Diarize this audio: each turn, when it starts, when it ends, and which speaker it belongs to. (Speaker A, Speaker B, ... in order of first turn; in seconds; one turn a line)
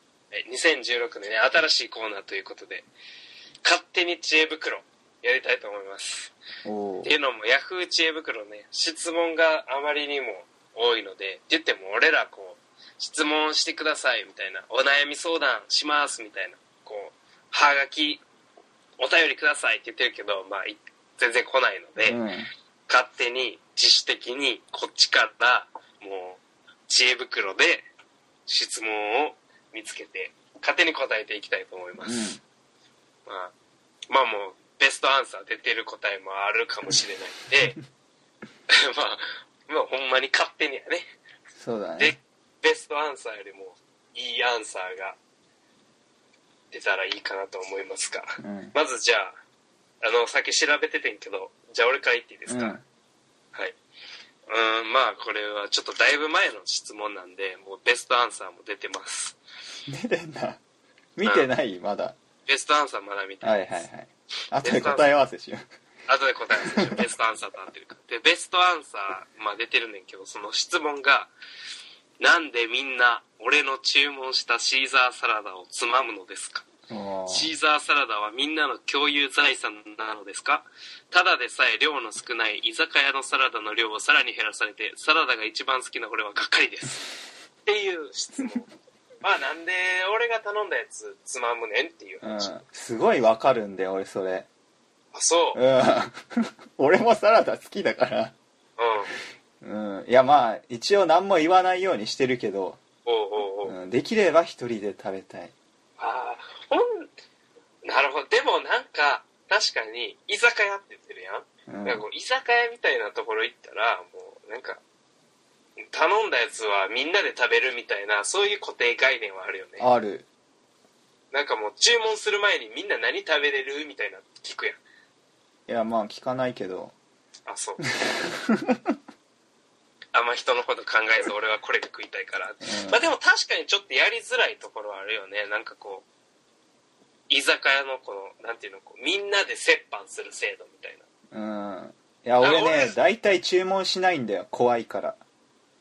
Speaker A: 0.3-2.9
Speaker A: 3.6-6.3
Speaker B: 6.7-7.1
Speaker A: 7.0-18.2
Speaker A: 19.0-22.2
Speaker B: 22.0-22.5
Speaker A: 22.9-27.9
Speaker A: 28.5-32.3
Speaker B: 32.0-32.4
Speaker A: 33.3-33.5
Speaker A: 34.1-37.8
Speaker A: 38.9-41.0
Speaker B: 41.6-42.2
Speaker A: 42.0-45.2
Speaker A: 46.7-49.4
Speaker B: 48.4-48.8
Speaker A: 50.0-52.8
Speaker B: 52.5-52.8
Speaker A: 54.5-59.4
Speaker B: 59.9-60.6
Speaker B: 61.2-62.2
Speaker A: 61.2-61.5
Speaker A: 62.5-63.9
Speaker B: 63.4-65.6
Speaker A: 64.6-65.1
Speaker A: 66.1-71.3
Speaker A: 72.2-76.7
Speaker B: 76.9-77.5
Speaker A: 77.3-87.1
Speaker A: 87.7-88.7
Speaker A: 89.2-92.6
Speaker B: 92.2-94.5
Speaker A: 95.1-95.6
Speaker B: 95.5-96.2
Speaker B: 96.8-98.3
Speaker A: 98.8-99.1
Speaker B: 99.6-102.8
Speaker A: 103.1-103.7
Speaker B: 103.7-105.5
Speaker A: 106.0-107.1
Speaker A: 107.8-114.8
Speaker B: 111.7-112.0
Speaker A: 115.9-119.8
Speaker B: 119.8-120.3
Speaker A: 121.3-124.8
Speaker B: 125.7-127.0
Speaker A: 127.5-127.8
Speaker B: 128.1-128.9
Speaker A: 130.1-136.1
Speaker B: 132.7-133.0
Speaker A: 137.3-141.0
Speaker B: 141.3-145.2
Speaker A: 142.4-143.0